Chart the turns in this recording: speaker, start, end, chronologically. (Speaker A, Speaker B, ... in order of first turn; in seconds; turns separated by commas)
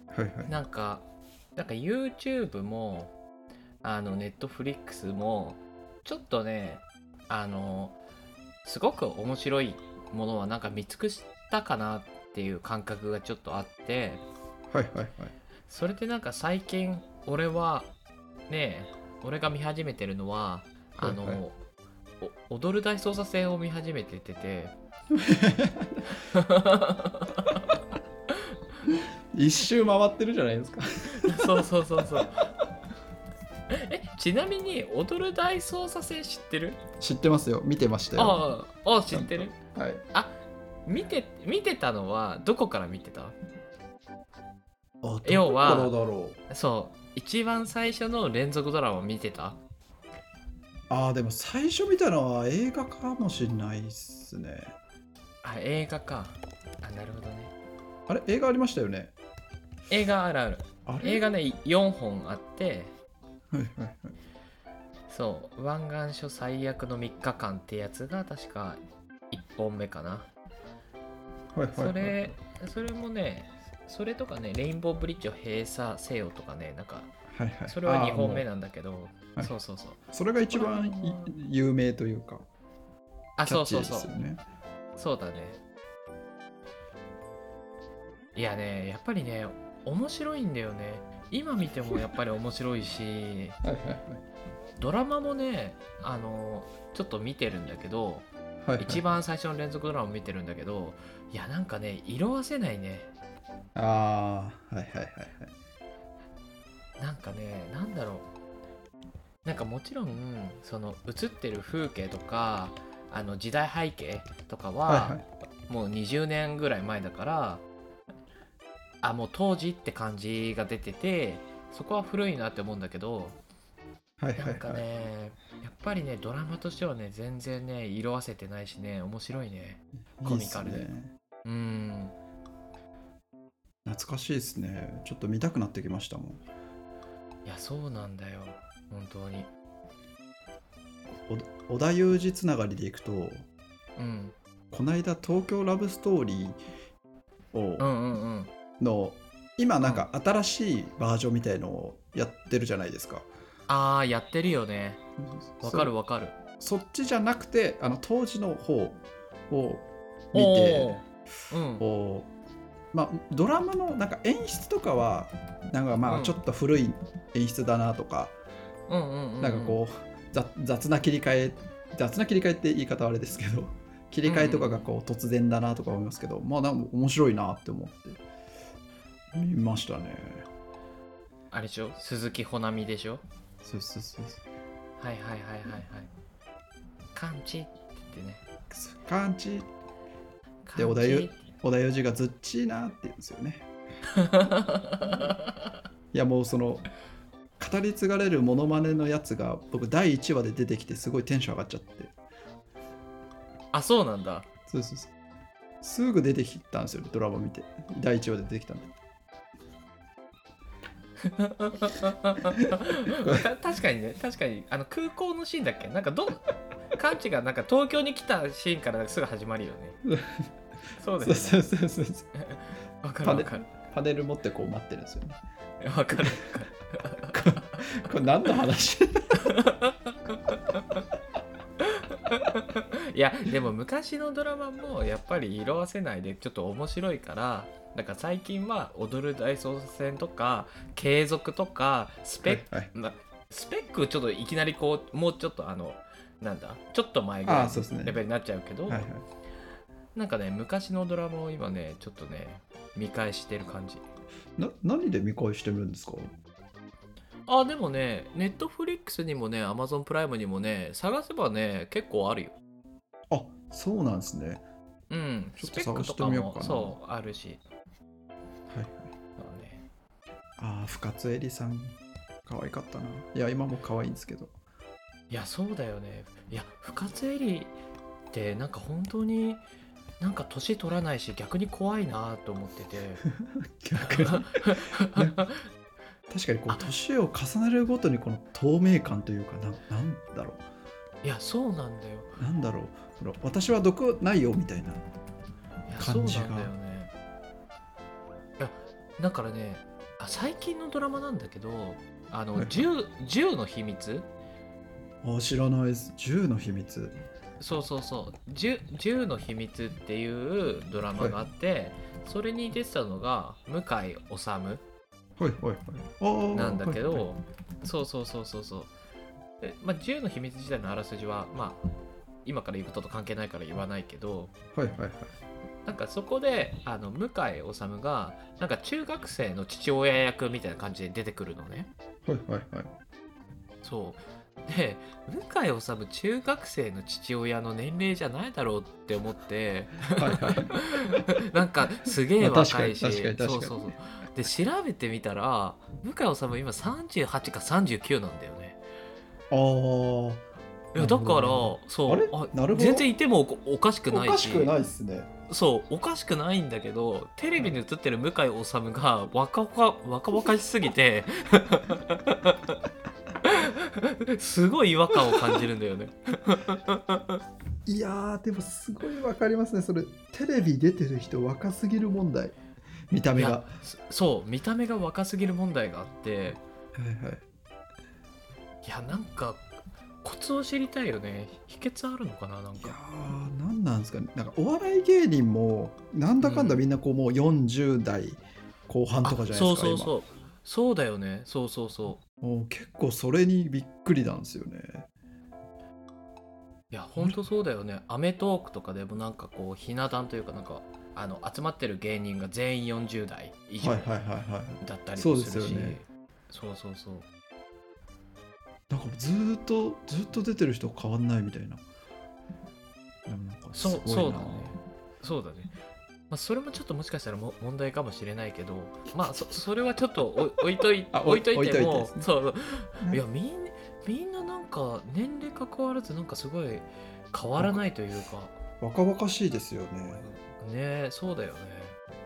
Speaker A: 0.1-0.6, Speaker B: 0.5-3.2, Speaker B: 3.8-8.0, Speaker B: 8.6-14.2, Speaker A: 14.7-15.3, Speaker B: 15.7-17.9, Speaker B: 18.5-21.6, Speaker A: 21.0-21.4, Speaker B: 22.2-24.8, Speaker A: 25.1-26.1, Speaker B: 26.2-27.7, Speaker A: 28.9-31.7, Speaker B: 31.2-32.5, Speaker B: 33.7-36.8, Speaker A: 37.0-38.4, Speaker B: 38.2-39.6, Speaker A: 39.1-40.0, Speaker B: 40.9-43.4, Speaker A: 45.0-46.4, Speaker B: 45.2-46.0, Speaker B: 46.5-49.6, Speaker A: 50.9-54.8, Speaker B: 55.4-57.5, Speaker A: 58.1-59.1, Speaker B: 59.9-62.9, Speaker A: 60.9-61.4, Speaker A: 63.5-64.1, Speaker B: 65.1-68.8, Speaker B: 69.3-70.3, Speaker A: 71.5-72.3, Speaker B: 71.7-77.1, Speaker A: 77.3-78.5, Speaker B: 77.7-81.3, Speaker A: 80.1-82.5, Speaker B: 83.4-84.1, Speaker A: 83.5-84.4, Speaker B: 85.0-85.6, Speaker B: 88.3-93.6, Speaker A: 93.6-94.2, Speaker B: 94.8-98.3, Speaker A: 98.7-99.0, Speaker B: 98.8-103.1, Speaker A: 103.8-105.5, Speaker B: 107.0-108.3, Speaker B: 109.4-117.6, Speaker A: 114.9-115.2, Speaker B: 119.0-123.4, Speaker A: 124.2-124.9, Speaker B: 124.4-130.9, Speaker A: 130.2-131.1, Speaker B: 131.4-132.2, Speaker A: 133.8-136.4, Speaker B: 137.5-139.5, Speaker A: 141.3-143.5, Speaker B: 144.0-144.3, Speaker A: 144.7-146.6, Speaker A: 147.5-147.9, Speaker B: 147.8-148.5, Speaker A: 148.8-153.3, Speaker B: 153.7-155.0, Speaker A: 155.2-155.9, Speaker B: 155.6-156.3, Speaker A: 156.6-161.0, Speaker B: 160.3-161.9, Speaker A: 161.8-162.3, Speaker A: 162.9-168.4, Speaker B: 166.1-166.4, Speaker B: 168.9-169.8, Speaker A: 169.4-178.2, Speaker B: 174.3-174.9, Speaker A: 179.3-180.5, Speaker B: 181.5-183.2, Speaker A: 183.6-184.4, Speaker B: 185.0-186.1, Speaker B: 187.2-188.4, Speaker A: 188.7-189.7, Speaker B: 190.7-191.5, Speaker A: 190.8-193.7, Speaker B: 194.2-195.5, Speaker A: 196.1-196.9, Speaker A: 197.6-202.1, Speaker B: 203.7-204.5, Speaker A: 204.7-205.1, Speaker A: 205.8-208.9, Speaker B: 211.2-220.0, Speaker A: 213.2-213.5, Speaker A: 220.1-220.5, Speaker B: 221.0-221.6, Speaker A: 221.2-222.3, Speaker B: 222.4-223.7, Speaker A: 223.2-225.4, Speaker B: 225.8-227.8, Speaker A: 226.2-226.5, Speaker A: 227.3-229.5, Speaker B: 229.4-231.0, Speaker B: 231.8-249.1, Speaker A: 242.4-242.9, Speaker A: 247.5-248.2, Speaker A: 248.9-249.2, Speaker B: 250.2-254.1, Speaker A: 254.6-256.3, Speaker B: 257.5-262.6, Speaker A: 263.3-264.6, Speaker B: 265.1-267.6, Speaker A: 265.6-267.0, Speaker A: 268.7-269.1, Speaker B: 269.4-269.9, Speaker A: 270.6-274.5, Speaker B: 275.3-277.8, Speaker B: 278.3-279.6, Speaker B: 280.2-283.2, Speaker A: 283.3-285.5, Speaker B: 284.0-285.6, Speaker A: 286.3-290.6, Speaker B: 291.2-292.4, Speaker A: 292.4-295.0, Speaker B: 295.9-297.1, Speaker A: 296.0-296.7, Speaker B: 298.6-304.3, Speaker A: 302.6-302.9, Speaker A: 305.2-307.2, Speaker B: 307.6-314.8, Speaker A: 311.1-311.4, Speaker A: 315.4-317.3, Speaker B: 316.5-318.9, Speaker B: 319.6-321.9, Speaker B: 322.4-324.5, Speaker A: 324.8-325.3, Speaker B: 325.9-331.9, Speaker A: 332.3-332.9, Speaker B: 333.8-348.8, Speaker A: 340.1-340.9, Speaker A: 342.4-343.9, Speaker A: 349.5-350.4, Speaker B: 350.9-354.7, Speaker A: 351.0-353.1, Speaker A: 354.1-355.3, Speaker B: 355.5-362.8, Speaker B: 363.4-367.4, Speaker A: 367.9-372.6, Speaker A: 373.1-373.7, Speaker B: 373.3-376.6, Speaker A: 376.9-377.4, Speaker B: 378.8-379.7, Speaker B: 380.2-383.0, Speaker A: 382.8-390.1, Speaker B: 386.4-386.8, Speaker B: 389.2-392.2, Speaker A: 392.4-395.1, Speaker B: 396.9-404.1, Speaker A: 403.8-406.0, Speaker B: 404.8-407.3, Speaker A: 408.9-411.8, Speaker A: 413.3-414.8, Speaker B: 413.7-415.8, Speaker B: 416.3-428.6, Speaker A: 421.1-422.3, Speaker A: 427.6-427.9, Speaker A: 428.8-430.3, Speaker B: 430.2-432.0